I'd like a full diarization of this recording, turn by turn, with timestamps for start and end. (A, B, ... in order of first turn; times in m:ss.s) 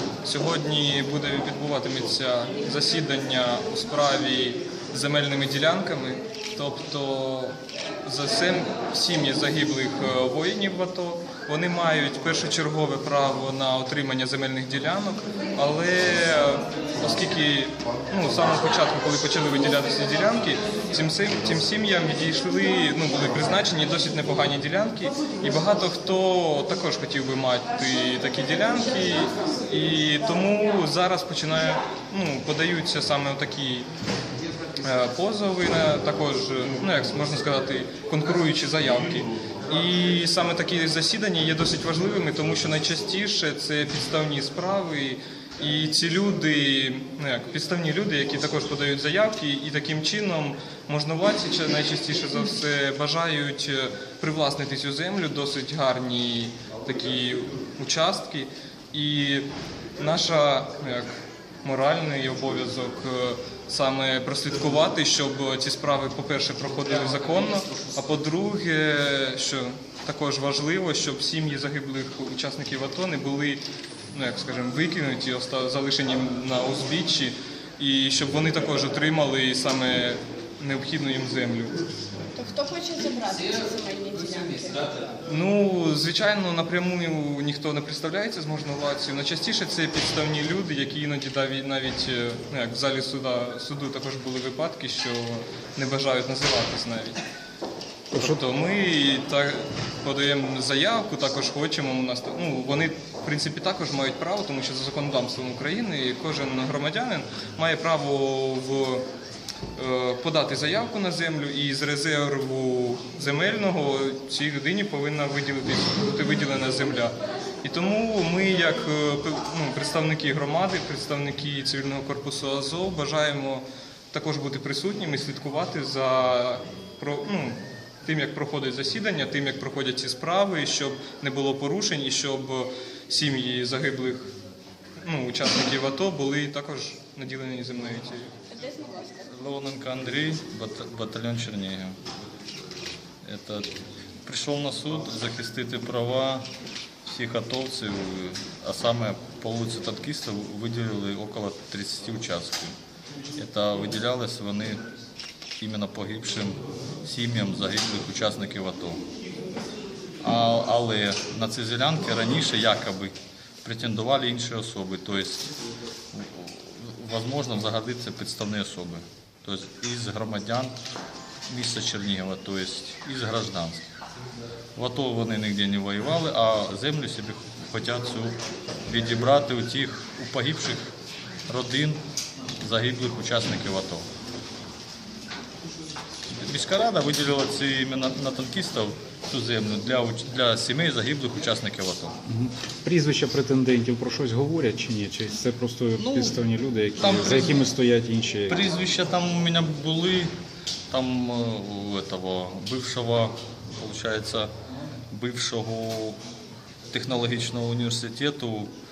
0:00.2-0:33.9 A
0:34.8-1:01.1 A
1:01.6-1:13.6 A
1:14.1-1:21.8 A
1:22.3-1:25.1 B
1:25.2-1:37.2 A
1:38.1-1:38.4 C
1:38.2-1:49.0 A
1:49.8-2:14.3 A
2:15.0-2:18.3 A
2:19.0-2:22.0 D
2:23.2-2:23.7 D
2:24.2-2:26.5 D
2:27.0-2:32.8 D
2:33.4-2:34.8 D
2:35.6-2:39.0 D
2:40.2-2:45.6 D
2:46.1-2:50.8 D
2:51.5-2:53.9 D
2:54.8-3:01.0 D
3:01.5-3:02.0 D
3:02.6-3:04.1 D
3:06.3-3:12.2 D
3:12.3-3:18.6 C
3:16.0-3:16.4 D
3:17.0-3:17.7 D
3:18.5-3:20.3 D
3:20.9-3:24.5 D
3:25.1-3:26.2 D
3:26.9-3:28.7 D